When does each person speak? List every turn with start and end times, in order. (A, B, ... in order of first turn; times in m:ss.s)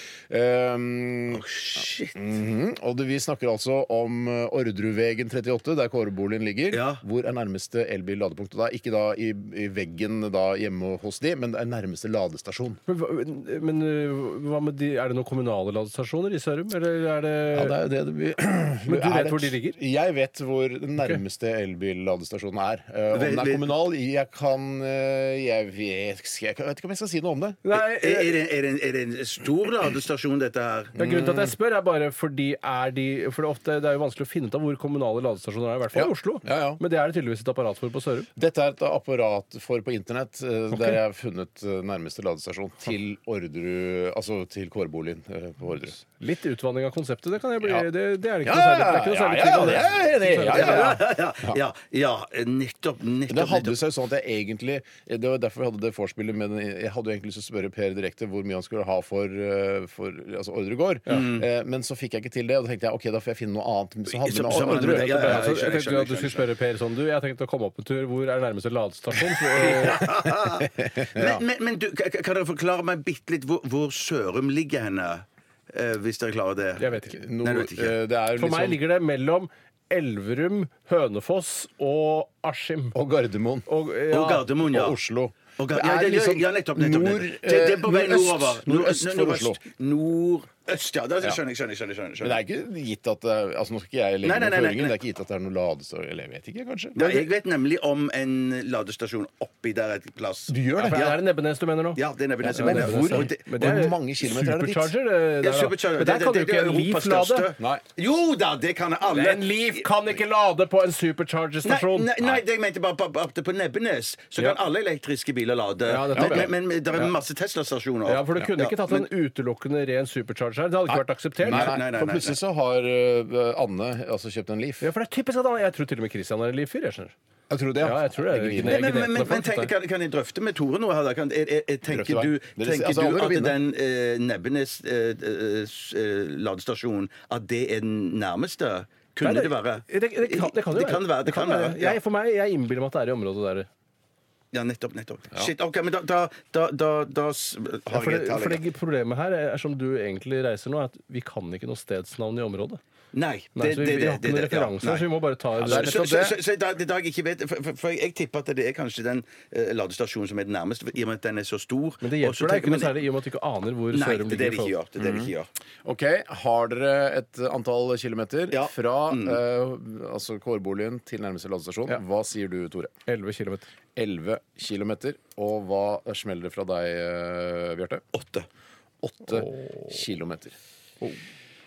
0:00.3-0:01.4 A
0:01.3-0:02.2 B
0:02.1-0:12.8 A
0:06.7-0:07.0 B
0:12.9-0:17.8 C
0:17.5-0:27.6 A
0:18.8-0:19.8 C
0:23.1-0:23.7 B
0:27.6-0:28.4 C
0:27.7-0:31.0 B
0:31.0-0:31.5 A
0:31.0-0:38.3 C
0:35.9-0:36.8 A
0:38.4-0:46.0 A
0:40.7-0:41.0 C
0:46.0-0:51.0 C
0:47.6-0:47.9 A
0:48.4-0:51.6 A
0:50.4-0:53.8 B
0:53.3-1:05.5 A
1:01.1-1:01.4 B
1:04.1-1:06.4 B
1:04.5-1:10.1 C
1:09.5-1:16.9 B
1:10.8-1:11.4 A
1:16.8-1:17.2 C
1:17.0-1:18.8 A
1:17.4-1:18.0 B
1:18.3-1:23.0 C
1:22.9-1:23.7 A
1:23.7-1:24.5 C
1:24.1-1:25.0 B
1:24.6-1:29.6 A
1:25.6-1:32.4 B
1:32.2-1:37.3 A
1:34.2-1:35.0 B
1:36.9-1:41.2 B
1:40.5-1:41.0 A
1:40.8-1:47.5 C
1:41.9-1:43.4 B
1:42.4-1:44.9 A
1:45.4-1:49.8 B
1:47.6-1:47.8 A
1:49.0-1:52.4 C
1:51.6-1:59.1 B
1:55.9-1:57.1 C
1:56.1-1:56.5 A
1:58.0-2:01.8 C
2:00.9-2:04.8 A
2:01.4-2:02.4 B
2:04.8-2:07.1 C
2:07.5-2:09.0 A
2:07.8-2:09.7 C
2:08.6-2:22.0 B
2:11.9-2:13.6 A
2:19.2-2:23.7 C
2:24.5-2:28.6 B
2:27.9-2:32.8 C
2:33.1-2:43.0 B
2:33.5-2:36.0 C
2:35.6-2:36.4 A
2:42.0-2:44.7 C
2:43.9-2:45.5 B
2:45.0-2:45.3 A
2:45.8-2:52.9 A
2:48.5-2:49.4 B
2:53.1-2:53.7 C
2:54.0-2:58.0 A
2:58.1-2:58.5 B
2:59.0-3:00.6 A
2:59.3-2:59.9 C